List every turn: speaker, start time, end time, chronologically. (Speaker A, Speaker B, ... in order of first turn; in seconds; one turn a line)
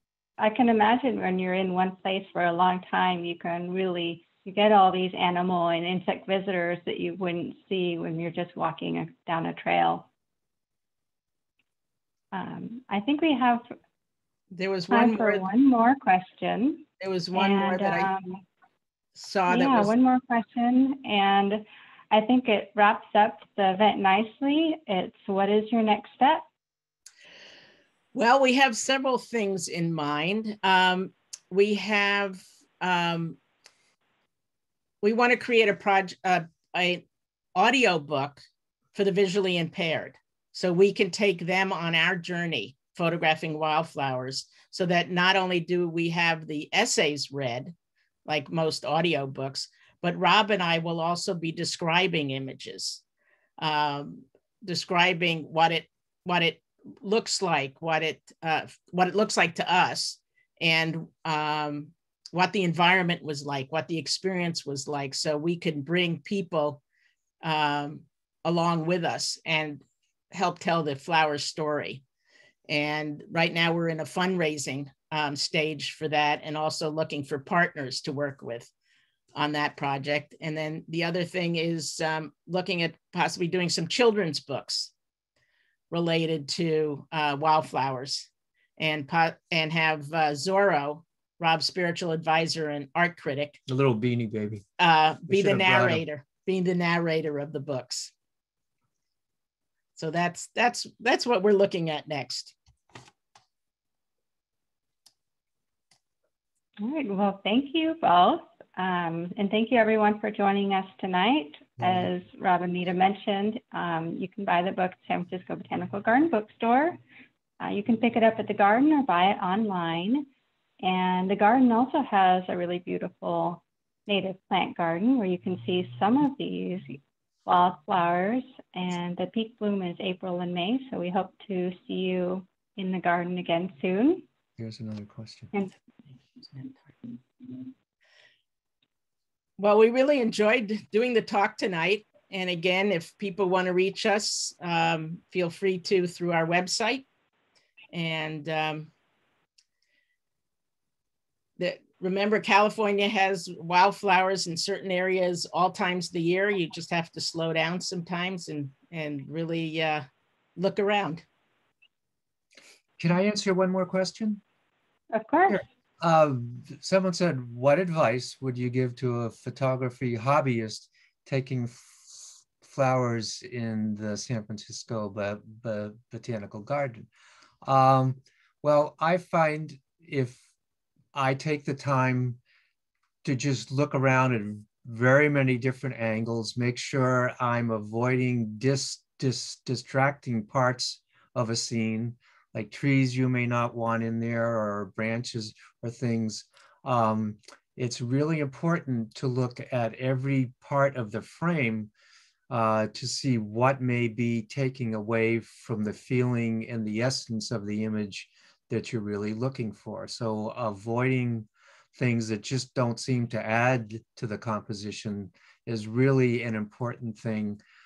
Speaker A: 0.4-10.1
Speaker A: 12.3-13.7
Speaker B: 14.5-15.5
Speaker A: 14.9-18.4
Speaker B: 17.0-18.1
Speaker B: 19.2-19.9
Speaker A: 19.5-26.4
Speaker B: 28.1-33.4
Speaker B: 35.0-37.0
Speaker B: 37.6-38.4
Speaker B: 38.9-47.7
Speaker B: 48.3-53.0
Speaker B: 53.6-66.8
Speaker B: 67.4-72.0
Speaker B: 72.7-78.7
Speaker B: 79.3-84.9
Speaker B: 85.9-93.6
Speaker C: 93.7-94.7
Speaker B: 94.8-98.1
Speaker C: 95.3-96.0
Speaker B: 100.0-102.5
Speaker A: 106.8-117.0
Speaker C: 111.8-112.1
Speaker A: 117.6-120.3
Speaker A: 120.8-134.2
Speaker C: 134.6-135.5
Speaker B: 139.6-147.1
Speaker B: 147.9-148.9
Speaker B: 151.6-161.2
Speaker C: 163.0-164.4
Speaker A: 165.1-165.6
Speaker C: 165.5-177.1
Speaker C: 177.6-180.4
Speaker C: 181.1-182.4
Speaker C: 183.2-201.9
Speaker C: 202.5-217.6